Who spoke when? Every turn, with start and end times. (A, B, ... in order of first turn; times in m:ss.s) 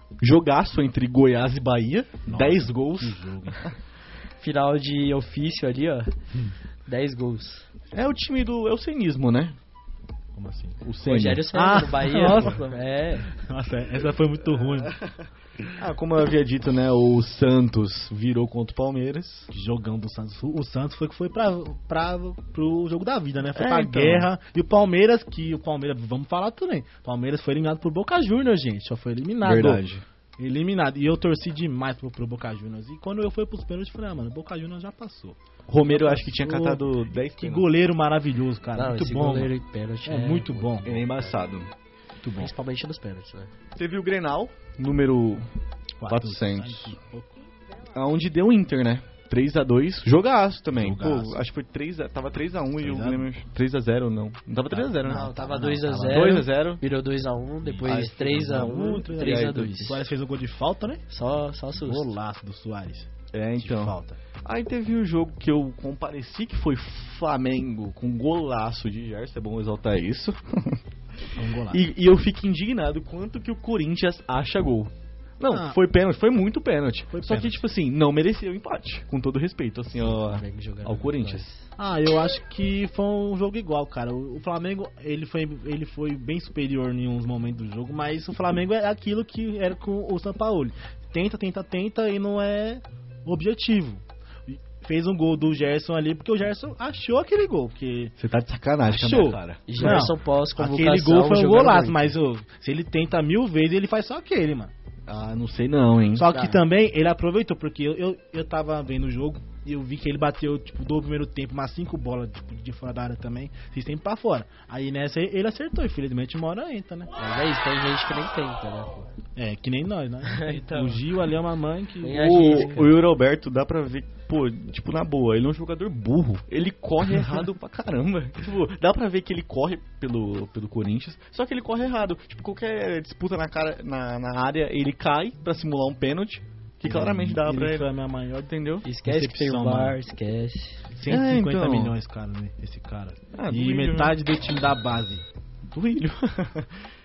0:00.2-0:03.7 A
0:02.2-0:03.7 B
0:04.4-0:06.1 C
0:06.9-0:07.7 C
0:07.9-0:09.6 A
0:10.3-0:10.8 B
0:10.8-0:11.5 A
0:11.0-0:13.3 C
0:11.5-0:12.6 B
0:13.3-0:15.0 B
0:15.8-0:19.5 A
0:19.5-0:29.8 B
0:23.5-0:24.3 A
0:29.4-0:30.0 A
0:30.4-0:39.5 B
0:35.7-0:37.7 A
0:38.7-0:41.2 C
0:40.0-0:41.0 B
0:40.8-0:41.7 A
0:42.2-0:42.5 B
0:42.4-0:43.5 C
0:43.7-0:45.5 A
0:46.0-0:47.4 B
0:46.0-0:47.0 A
0:47.9-0:55.3 A
0:50.7-0:51.4 B
0:52.8-0:53.2 B
0:54.7-0:56.4 B
0:55.0-1:00.0 C
0:56.0-0:56.8 A
0:57.6-1:01.0 B
0:57.8-0:59.8 A
1:01.1-1:02.1 C
1:01.8-1:04.2 B
1:03.3-1:10.8 A
1:11.3-1:11.8 B
1:11.7-1:21.5 A
1:15.5-1:15.8 B
1:17.1-1:17.6 B
1:20.0-1:21.7 C
1:21.8-1:38.1 B
1:38.2-1:40.1 A
1:38.8-1:44.7 B
1:39.7-1:42.1 C
1:45.1-1:46.3 A
1:46.1-1:57.1 B
1:46.3-1:46.6 C
1:57.2-1:59.1 C
1:59.4-2:02.7 B
2:00.3-2:01.0 C
2:02.0-2:03.0 C
2:02.0-2:17.9 A
2:16.8-2:20.0 B
2:18.4-2:18.8 A
2:18.8-2:20.8 C
2:20.9-2:25.2 B
2:21.0-2:21.9 A
2:23.3-2:24.2 A
2:25.6-2:26.8 A